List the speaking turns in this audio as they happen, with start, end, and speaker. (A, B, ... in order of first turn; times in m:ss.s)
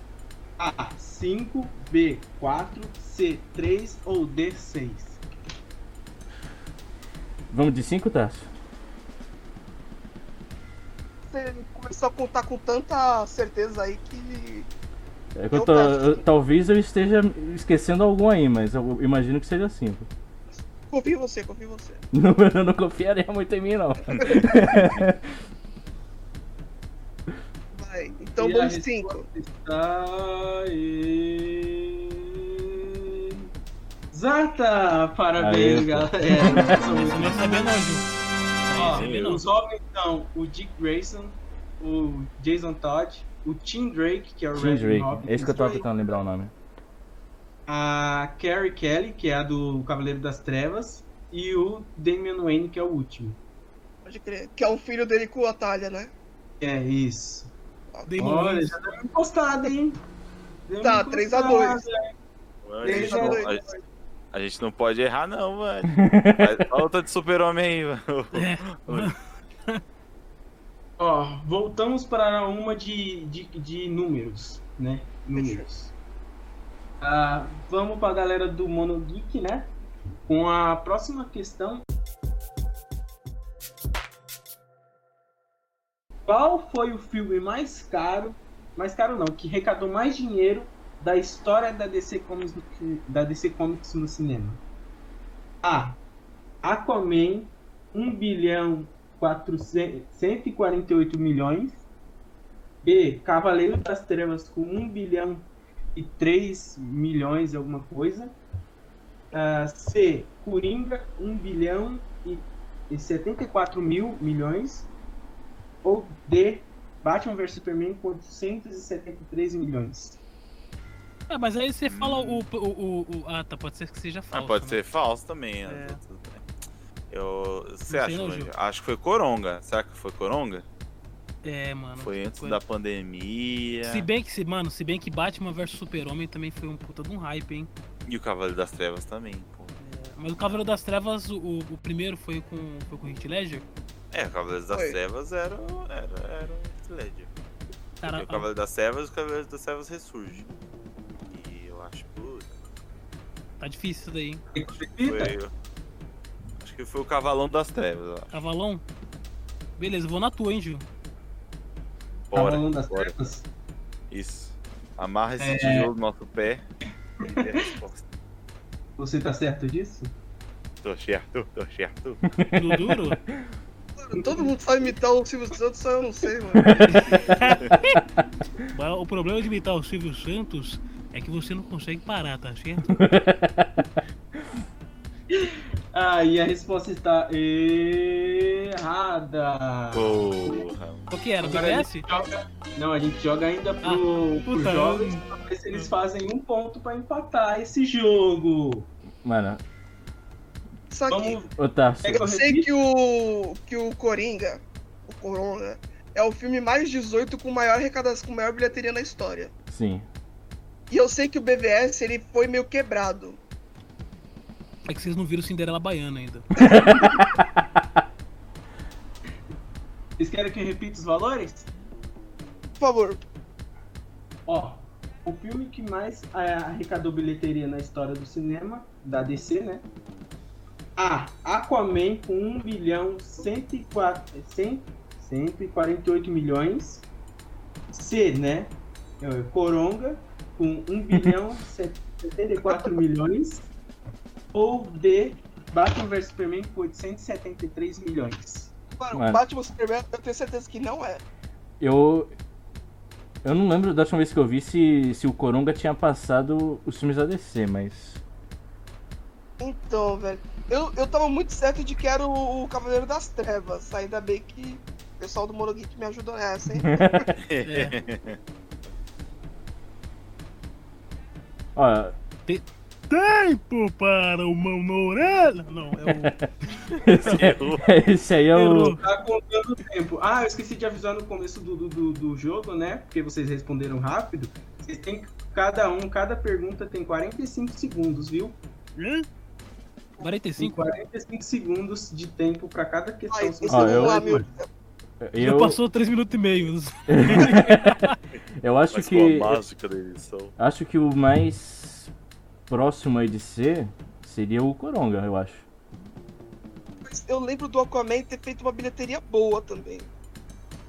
0:00.6-0:05.2 A
0:07.5-0:08.5 B
0:11.3-0:14.7 C
0:15.4-0:20.1 B
0:15.5-0:16.2 C
0:20.9-0:22.0 C
0:22.1-0:25.2 B
0:24.2-0:24.5 C
0:27.7-0:29.2 C
0:28.4-0:32.2 A
0:34.1-0:37.5 A
0:35.4-0:36.8 B
0:36.9-0:38.1 D
0:38.7-0:39.4 D
0:38.7-0:45.9 A
0:38.8-0:39.4 E
0:44.5-0:46.5 B
0:47.7-0:53.4 A
0:54.0-0:56.1 C
0:56.6-0:57.5 A
0:58.1-0:58.8 D
0:58.2-1:00.0 A
1:00.7-1:02.0 A
1:00.8-1:01.8 C
1:02.6-1:03.6 E
1:02.8-1:03.7 A
1:02.8-1:03.6 C
1:04.3-1:09.2 E
1:05.9-1:06.6 B
1:08.3-1:09.2 D
1:11.0-1:15.9 A
1:15.3-1:15.6 C
1:17.0-1:19.7 A
1:20.3-1:21.8 A
1:26.2-1:34.6 A
1:35.6-1:36.0 A
1:36.6-1:41.8 A
1:42.8-1:48.4 A
1:49.3-1:54.9 A
1:55.8-2:00.2 A
2:01.3-2:04.8 D
2:01.8-2:02.4 E
2:04.3-2:06.4 E
2:05.6-2:06.0 D
2:07.1-2:10.6 E
2:07.9-2:08.5 D
2:11.4-2:12.6 D
2:12.0-2:14.1 E
2:13.8-2:17.7 D
2:18.1-2:19.7 E
2:19.8-2:23.6 D
2:20.4-2:20.6 E
2:24.1-2:27.3 E
2:24.7-2:25.0 C
2:28.0-2:28.4 D
2:28.0-2:30.5 E
2:31.3-2:32.5 E
2:33.6-2:34.4 D
2:34.5-2:35.4 A
2:34.7-2:35.5 E
2:36.6-2:38.3 E
2:38.3-2:38.8 D
2:39.8-2:40.8 D
2:42.3-2:43.2 E
2:42.3-2:43.4 A
2:44.1-2:46.6 E
2:45.4-2:45.9 A
2:47.2-2:48.0 E
2:47.2-2:47.6 A
2:49.0-2:50.1 A
2:50.8-2:52.2 E
2:52.3-2:53.2 B
2:52.5-2:53.2 D
2:54.0-2:57.6 C
2:56.9-2:57.4 A
2:57.4-2:57.9 D
2:58.7-3:03.0 D
3:02.9-3:03.9 B
3:05.3-3:10.6 A
3:09.9-3:11.1 E
3:11.1-3:12.0 D
3:11.4-3:18.9 A
3:13.8-3:15.2 D
3:19.2-3:19.6 B
3:20.9-3:21.4 C
3:21.1-3:22.7 A
3:21.6-3:22.2 B
3:22.2-3:29.5 C
3:29.7-3:30.0 B
3:30.9-3:33.4 C
3:34.9-3:36.5 D
3:36.6-3:37.8 B
3:40.2-3:41.7 A
3:42.8-3:43.2 C
3:44.5-3:49.9 A
3:51.0-3:57.1 A
3:57.9-4:03.7 A
4:02.6-4:02.9 C
4:04.5-4:08.7 A
4:09.0-4:11.2 C
4:09.1-4:09.4 B
4:11.8-4:12.3 B
4:13.4-4:18.2 B
4:19.6-4:27.3 C
4:26.7-4:27.3 B
4:27.4-4:28.4 E
4:27.6-4:27.9 D
4:31.8-4:32.1 B
4:32.5-4:36.3 D
4:36.1-4:36.4 B
4:37.0-4:39.0 B
4:37.1-4:37.9 E
4:37.2-4:37.5 D
4:38.5-4:39.0 D
4:38.6-4:48.6 A
4:49.0-4:49.2 D
4:50.2-4:50.8 D
4:50.6-4:54.5 A
4:53.3-4:54.7 C
4:53.7-4:54.4 B
4:55.2-4:55.8 B
4:55.4-4:58.2 D
4:57.1-4:58.1 B
4:58.6-4:59.6 B
4:58.9-5:00.5 E
5:00.6-5:02.1 B
5:02.7-5:05.6 B
5:07.0-5:10.1 C